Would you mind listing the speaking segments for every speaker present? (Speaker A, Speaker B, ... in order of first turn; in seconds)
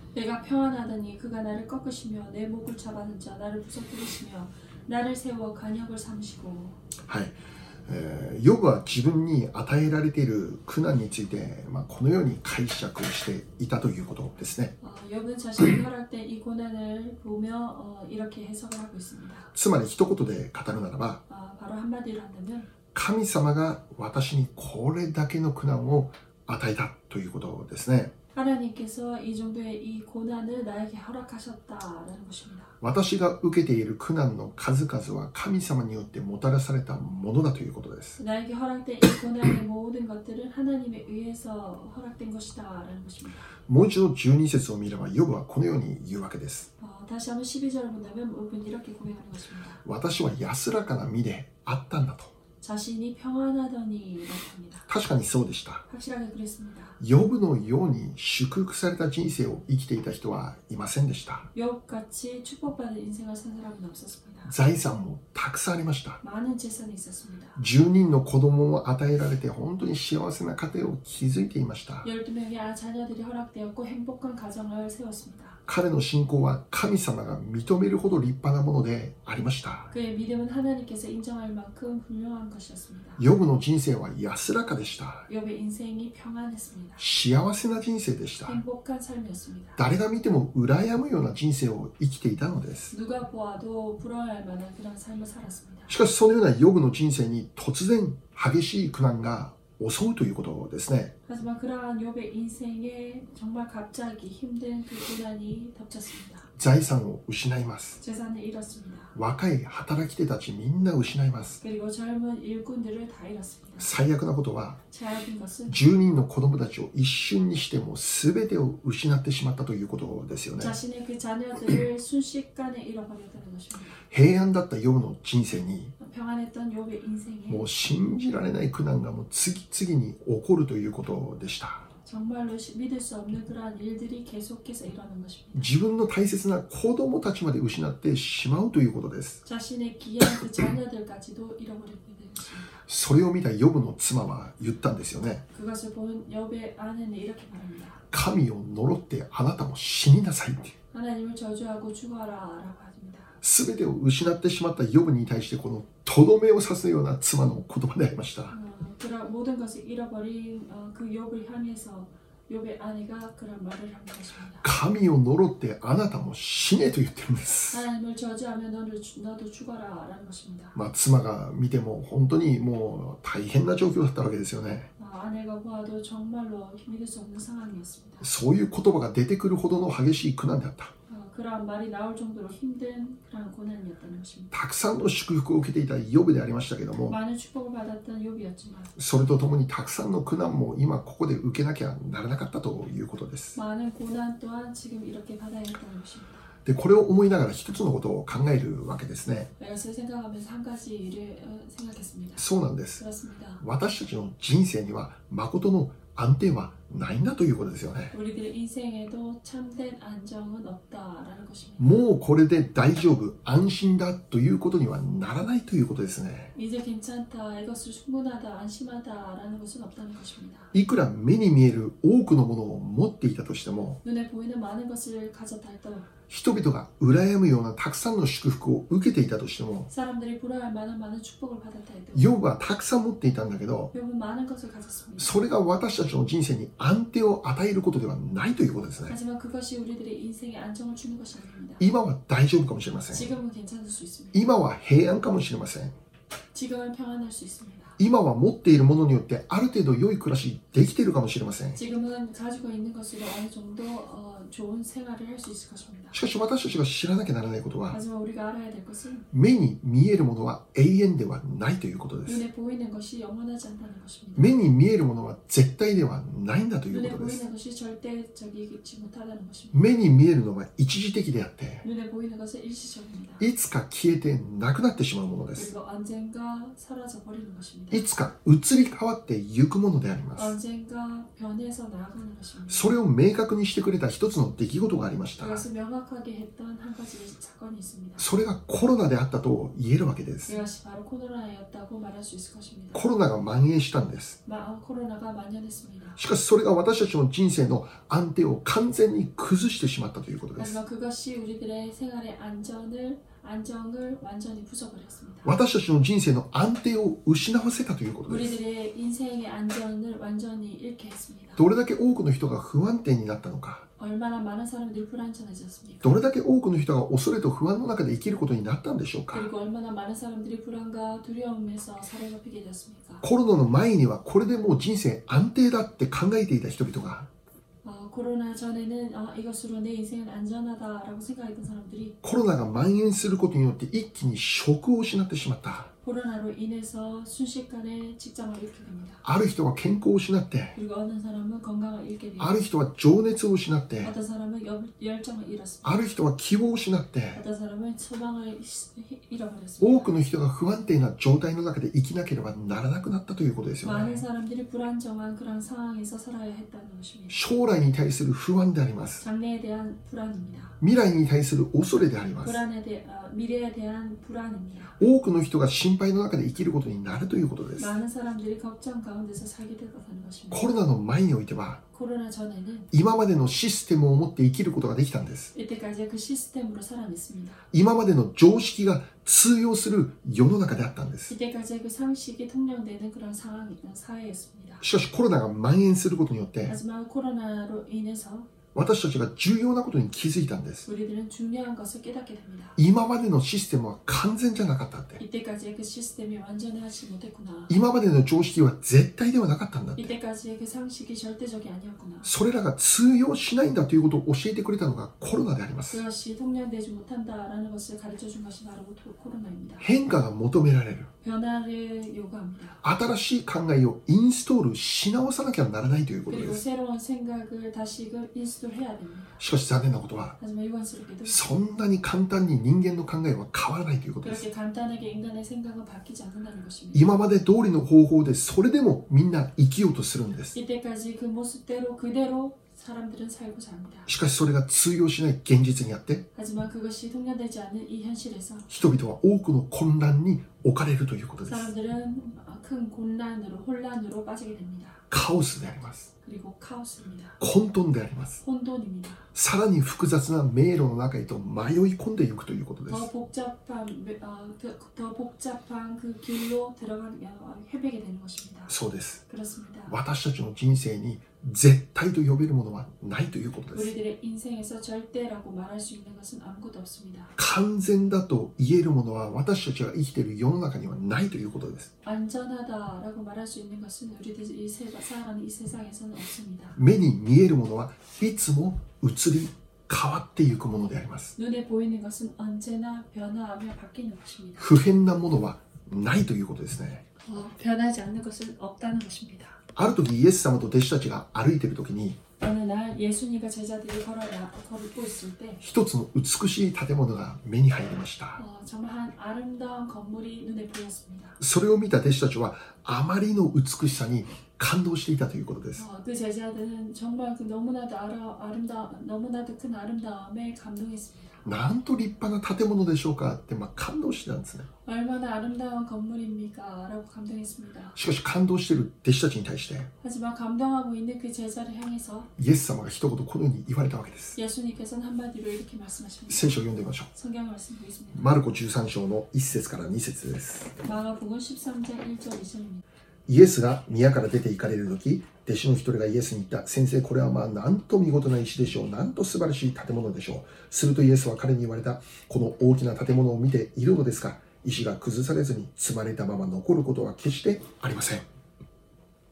Speaker A: 0.1-6.8, 14.8-19.5, 21.3-22.7, 28.3-32.7, 38.2-43.5, 46.8-49.8, 52.6-54.9, 55.9-57.0, 61.5-64.5, 66.2-67.6, 72.0-75.6, 79.9-83.2, 85.3-87.0, 88.4-89.8, 92.9-95.9, 101.3-106.5, 108.0-109.1, 111.6-113.9, 114.9-115.8, 120.6-124.0, 126.0-127.7, 132.0-135.7, 139.4-142.8, 145.5-148.0, 150.9-153.3, 158.5-164.7, 167.7-170.8, 175.0-178.3, 181.1-184.5, 187.1-188.9, 193.5-196.4, 199.6-202.5, 203.0-203.6, 208.1-212.0, 216.5-220.7, 224.0-226.1, 229.9-232.3, 233.9-235.3, 239.1-241.9, 243.1-244.5, 246.5-247.9, 251.8-256.2, 257.9-259.3, 262.2-264.5, 266.9-269.8, 271.8-273.5, 275.6-278.1, 280.4-282.9, 285.4-288.3, 290.5-293.1, 294.4-296.2, 300.6-305.5, 308.3-311.6, 314.0-316.2, 319.3-323.2, 327.8-332.2, 336.0-339.2, 340.8-342.5, 344.0-345.9, 347.3-350.1, 353.8-357.4, 359.2-360.8, 362.4-365.0, 367.8-370.7, 371.9-372.9, 375.5-377.6, 381.3-384.8, 386.6-388.5, 390.8-392.8, 395.2-397.7, 400.0-402.3, 405.9-409.9, 411.2-412.8, 416.3-419.4, 420.4-421.4, 424.2-427.1, 430.5-434.1, 436.3-438.7, 441.5-445.0, 446.2-447.4, 448.4-449.2, 452.9-458.7, 459.3-459.9, 463.7-467.3, 472.0-476.8, 481.4-484.7, 487.2-489.6, 492.4-495.6, 498.4-501.4, 505.8-511.4, 514.8-518.0, 520.0-522.3, 524.3-526.5, 527.1-528.3, 530.8-532.8
Speaker B: 7.1-14.7, 19.5-21.2, 22.9-28.1, 32.8-38.2, 43.7-46.7, 49.8-52.3, 54.9-55.8, 57.0-61.5, 64.4-66.2, 67.5-72.1, 75.7-79.9, 83.2-85.3, 87.0-88.6, 89.8-92.9, 95.9-101.1, 106.6-108.0, 109.1-111.6, 113.8-114.8, 115.7-120.8, 124.1-125.9, 127.5-131.9, 135.5-139.4, 142.9-145.4, 148.1-150.7, 153.4-158.6, 164.6-167.8, 170.7-174.9, 178.2-180.9, 184.5-187.2, 188.9-193.6, 196.6-199.5, 202.4-203.0, 203.6-208.1, 211.8-216.5, 220.7-224.0, 226.3-229.9, 232.1-233.9, 235.2-239.2, 241.8-243.3, 244.3-245.9, 248.0-251.8, 256.1-258.0, 259.3-262.4, 264.4-267.4, 269.7-271.8, 273.4-275.7, 277.9-280.5, 282.7-285.6, 288.2-290.6, 292.9-294.4, 296.2-300.8, 305.4-308.6, 311.6-313.9, 316.0-319.5, 323.2-327.3, 332.2-335.9, 339.2-340.8, 342.4-344.1, 345.8-347.4, 349.8-354.2, 357.3-359.2, 360.8-362.6, 365.0-367.9, 370.5-371.8, 372.9-375.5, 377.7-381.3, 384.8-386.8, 388.7-390.9, 392.8-395.2, 397.7-400.1, 402.2-406.0, 409.8-411.1, 412.8-416.6, 419.4-420.4, 421.2-424.4, 426.9-430.6, 434.1-436.3, 438.7-441.7, 445.1-446.1, 447.4-448.4, 449.3-453.1, 458.7-459.2, 459.9-463.9, 467.4-471.9, 476.8-481.3, 484.6-487.1, 489.7-492.2, 495.6-498.4, 501.4-505.8, 511.4-514.7, 517.9-519.9, 522.4-524.4, 526.3-527.1, 528.1-530.7, 533.3-548.2